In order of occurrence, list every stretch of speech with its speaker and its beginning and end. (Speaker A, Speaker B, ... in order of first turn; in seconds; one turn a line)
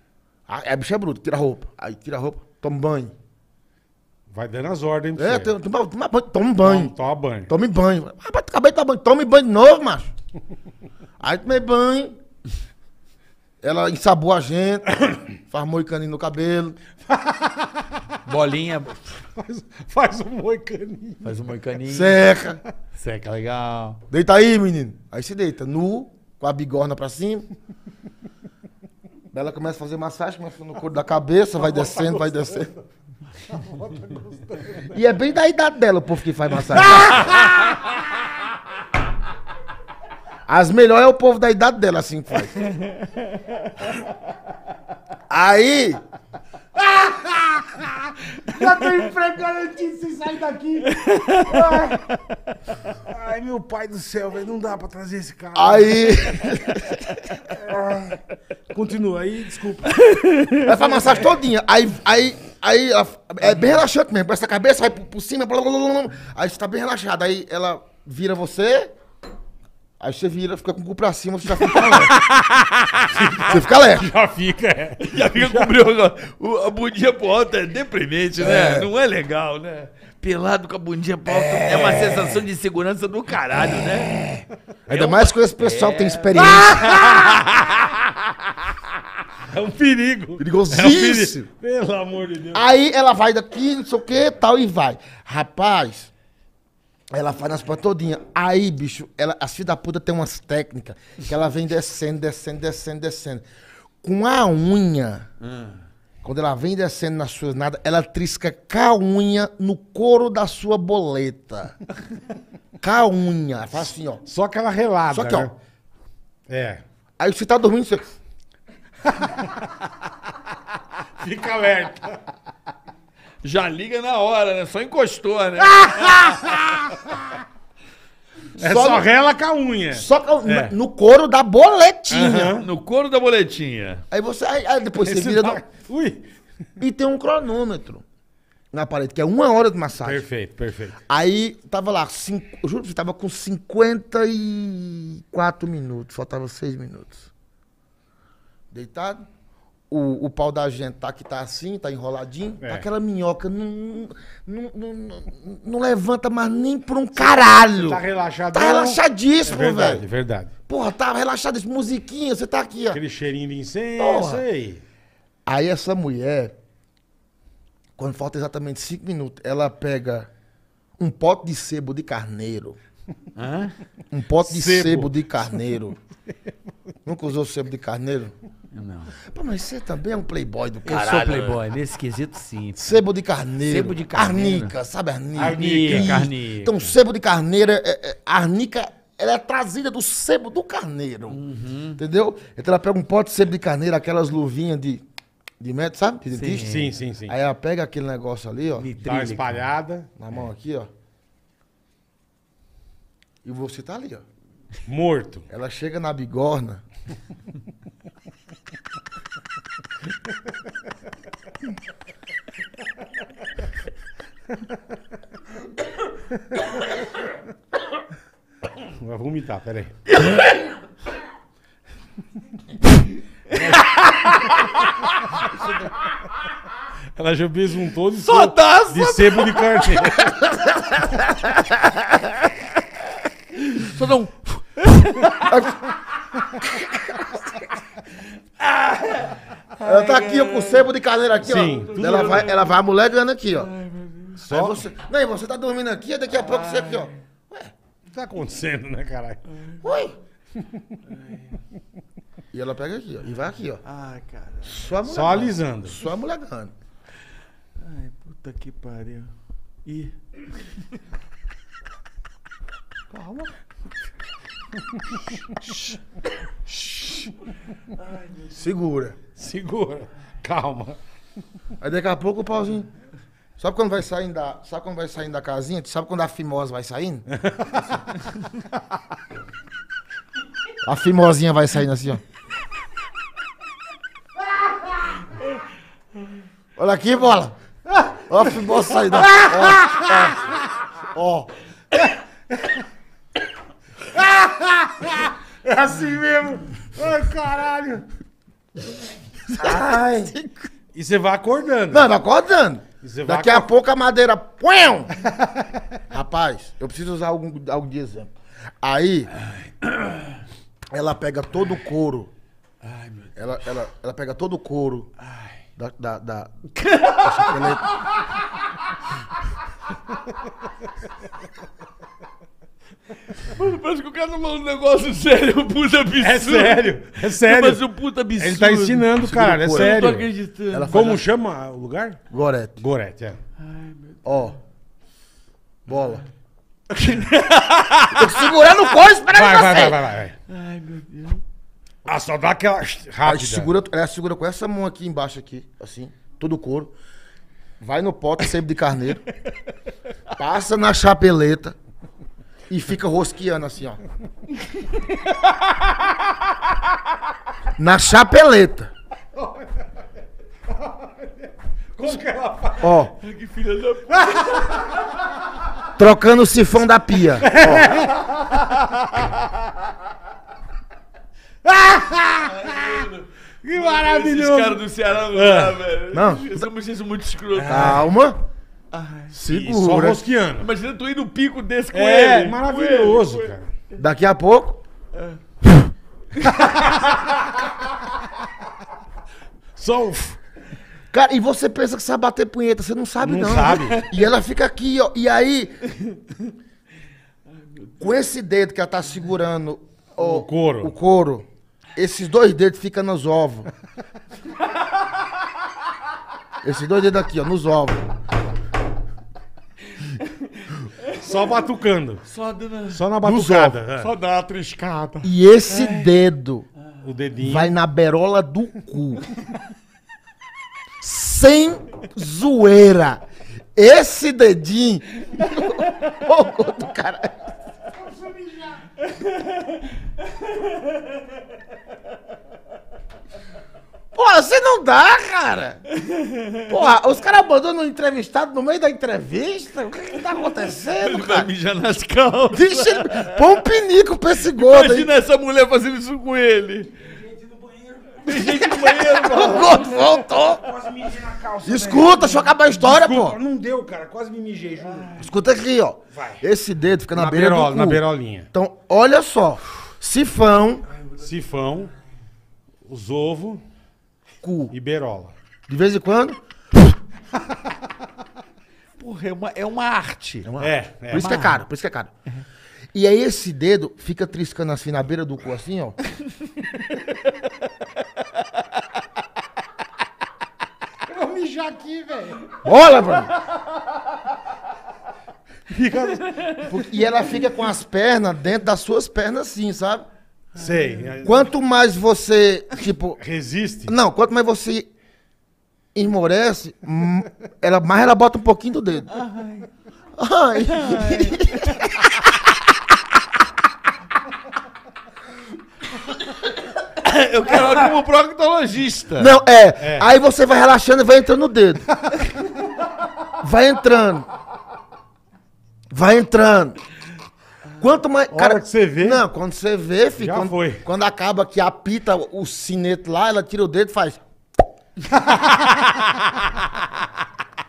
Speaker A: 0.5-3.1
Speaker B: 4.3-5.5
Speaker A: 5.2-6.9
Speaker B: 6.6-7.5
Speaker A: 7.5-10.1
Speaker A: 11.2-12.2
Speaker A: 13.6-14.9
Speaker A: 15.4-16.8
Speaker B: 17.1-18.0
Speaker C: 18.3-19.2
Speaker B: 19.4-21.4
Speaker C: 21.2-22.2
Speaker A: 21.9-22.6
Speaker C: 22.9-24.0
Speaker A: 24.1-27.5
Speaker A: 29.3-32.7
Speaker B: 31.6-32.7
Speaker B: 33.4-35.0
Speaker A: 34.8-37.4
Speaker B: 36.6-37.9
Speaker A: 40.5-42.7
Speaker A: 45.3-46.0
Speaker B: 46.8-52.2
Speaker C: 51.0-52.0
Speaker B: 52.9-56.9
Speaker A: 55.5-57.4
Speaker B: 57.5-60.0
Speaker C: 60.0-60.6
Speaker A: 60.6-68.9
Speaker A: 70.0-72.1
Speaker C: 71.7-73.4
Speaker B: 73.1-75.7
Speaker A: 73.4-74.1
Speaker C: 75.0-84.1
Speaker A: 78.4-78.9
Speaker A: 81.3-82.2
Speaker A: 84.1-86.9
Speaker C: 84.9-88.0
Speaker B: 86.4-87.4
Speaker B: 89.4-92.7
Speaker A: 90.4-91.5
Speaker A: 92.5-96.1
Speaker A: 97.1-103.5
Speaker A: 104.0-105.3
Speaker C: 105.4-105.8
Speaker A: 106.2-111.8
Speaker A: 112.8-114.2
Speaker B: 114.3-115.5
Speaker A: 115.1-115.5
Speaker B: 116.5-116.8
Speaker A: 117.2-118.2
Speaker B: 119.2-119.5
Speaker B: 121.2-122.2
Speaker C: 123.4-126.7
Speaker B: 125.7-127.2
Speaker A: 128.6-129.1
Speaker B: 128.6-130.8
Speaker A: 129.9-132.6
Speaker B: 132.1-132.7
Speaker C: 132.6-134.0
Speaker A: 134.1-135.6
Speaker B: 135.0-136.2
Speaker A: 136.8-138.0
Speaker A: 138.7-140.3
Speaker B: 140.0-141.0
Speaker A: 141.1-147.3
Speaker A: 148.7-149.2
Speaker A: 149.9-160.1
Speaker B: 152.6-152.8
Speaker B: 157.2-160.5
Speaker A: 160.7-163.0
Speaker B: 162.9-164.8
Speaker A: 164.0-164.4
Speaker A: 165.5-166.5
Speaker A: 168.0-170.3
Speaker A: 171.0-172.8
Speaker C: 173.4-173.8
Speaker A: 174.1-176.0
Speaker B: 174.4-175.6
Speaker A: 177.1-178.3
Speaker C: 178.7-179.2
Speaker A: 179.3-181.6
Speaker C: 180.8-183.0
Speaker A: 182.8-191.4
Speaker C: 183.6-184.8
Speaker B: 185.3-186.2
Speaker C: 185.4-186.9
Speaker C: 191.3-192.0
Speaker A: 192.0-195.0
Speaker A: 195.6-198.9
Speaker C: 196.3-196.9
Speaker B: 196.6-197.4
Speaker C: 198.8-199.6
Speaker B: 199.0-200.1
Speaker A: 200.2-200.9
Speaker A: 203.4-204.2
Speaker B: 204.9-205.5
Speaker A: 205.5-206.8
Speaker B: 218.8-220.0
Speaker C: 220.1-220.7
Speaker C: 223.5-225.6
Speaker B: 223.6-223.9
Speaker B: 227.2-230.4
Speaker C: 228.1-232.5
Speaker C: 233.6-235.5
Speaker A: 235.4-235.9
Speaker C: 238.6-240.9
Speaker A: 239.8-243.7
Speaker B: 241.4-242.0
Speaker C: 241.8-242.8
Speaker C: 243.6-244.4
Speaker A: 244.4-247.7
Speaker B: 244.5-244.9
Speaker C: 246.3-247.1
Speaker B: 248.1-249.5
Speaker C: 249.5-249.8
Speaker A: 249.8-250.2
Speaker B: 250.7-251.0
Speaker C: 251.1-251.6
Speaker A: 252.5-253.8
Speaker C: 253.8-254.8
Speaker A: 254.6-256.7
Speaker B: 255.1-256.0
Speaker C: 257.8-259.3
Speaker C: 259.9-260.2
Speaker A: 263.1-263.5
Speaker B: 266.7-267.3
Speaker A: 268.5-269.2
Speaker B: 269.4-271.0
Speaker A: 271.8-272.9
Speaker A: 273.6-277.3
Speaker B: 277.4-277.9
Speaker A: 280.8-282.2
Speaker A: 286.8-287.6
Speaker A: 288.3-290.4
Speaker B: 289.1-290.6
Speaker B: 291.1-291.5
Speaker B: 294.2-298.1
Speaker A: 299.6-300.7
Speaker B: 300.9-302.1
Speaker A: 301.9-305.1
Speaker B: 303.0-303.7
Speaker A: 306.1-309.3
Speaker A: 310.9-312.3
Speaker C: 312.9-313.3
Speaker A: 313.4-315.1
Speaker A: 315.8-316.5
Speaker C: 316.8-317.7
Speaker A: 317.1-318.0
Speaker C: 323.4-331.2
Speaker B: 326.1-327.8
Speaker B: 328.4-330.3
Speaker A: 329.2-330.0
Speaker A: 330.7-331.2
Speaker B: 330.9-332.2
Speaker A: 332.3-332.8
Speaker B: 332.8-333.4
Speaker C: 333.6-334.5
Speaker A: 334.2-334.6
Speaker A: 335.9-336.2
Speaker C: 336.9-338.6
Speaker A: 338.1-340.0
Speaker B: 339.3-340.4
Speaker C: 340.5-341.4
Speaker B: 342.1-343.7
Speaker A: 343.2-346.9
Speaker A: 347.8-349.3
Speaker A: 350.4-351.8
Speaker A: 352.7-354.0
Speaker A: 357.8-358.9
Speaker B: 360.8-361.1
Speaker B: 361.9-363.1
Speaker A: 362.8-363.1
Speaker C: 363.2-365.1
Speaker B: 364.1-364.6
Speaker A: 365.9-368.0
Speaker B: 367.4-368.6
Speaker B: 371.6-373.1
Speaker C: 372.4-378.0
Speaker B: 373.6-375.8
Speaker A: 376.1-376.6
Speaker B: 377.6-378.0
Speaker A: 377.7-378.4
Speaker C: 378.9-379.4
Speaker A: 379.3-380.2
Speaker B: 379.4-380.7
Speaker C: 380.6-383.5
Speaker B: 381.9-383.7
Speaker A: 384.0-384.8
Speaker C: 386.4-386.9
Speaker B: 386.6-387.1
Speaker B: 389.8-390.4
Speaker A: 391.1-395.8
Speaker B: 393.2-394.1
Speaker A: 398.0-403.7
Speaker B: 400.2-400.9
Speaker A: 406.6-408.1
Speaker C: 410.0-411.3
Speaker B: 411.2-412.2
Speaker C: 412.3-416.1
Speaker B: 412.9-414.1
Speaker A: 415.2-416.7
Speaker B: 417.0-417.7
Speaker A: 417.4-419.2
Speaker A: 421.0-423.2
Speaker A: 423.8-427.5
Speaker B: 428.1-428.8
Speaker A: 434.1-435.8
Speaker C: 436.1-436.6
Speaker A: 436.7-441.5
Speaker C: 441.0-443.4
Speaker A: 442.5-445.1
Speaker C: 444.5-446.9
Speaker B: 447.1-449.0
Speaker C: 448.2-450.0
Speaker A: 448.3-450.7
Speaker B: 450.6-455.2
Speaker A: 451.6-453.4
Speaker C: 454.9-455.2
Speaker A: 455.2-460.9
Speaker B: 456.1-456.4
Speaker B: 457.1-458.5
Speaker B: 461.2-461.9
Speaker B: 462.9-463.6
Speaker A: 464.4-464.7
Speaker B: 464.7-465.3
Speaker A: 465.7-466.9
Speaker C: 469.0-470.5
Speaker A: 470.4-472.1
Speaker B: 470.6-471.3
Speaker C: 471.1-471.6
Speaker A: 472.9-476.0
Speaker B: 481.1-482.6
Speaker A: 482.6-483.3
Speaker B: 485.7-486.7
Speaker A: 486.6-490.1
Speaker B: 490.6-491.5
Speaker C: 490.6-491.1
Speaker A: 491.2-493.2
Speaker B: 493.2-493.9
Speaker A: 493.9-494.9
Speaker A: 495.9-499.1
Speaker C: 499.1-499.7
Speaker A: 500.2-502.4
Speaker C: 500.7-501.9
Speaker C: 506.8-509.4
Speaker A: 509.2-511.9
Speaker B: 509.8-510.1
Speaker A: 513.4-514.3
Speaker A: 515.9-516.8
Speaker A: 517.8-524.2
Speaker B: 518.3-519.2
Speaker B: 520.2-520.8
Speaker C: 525.5-526.8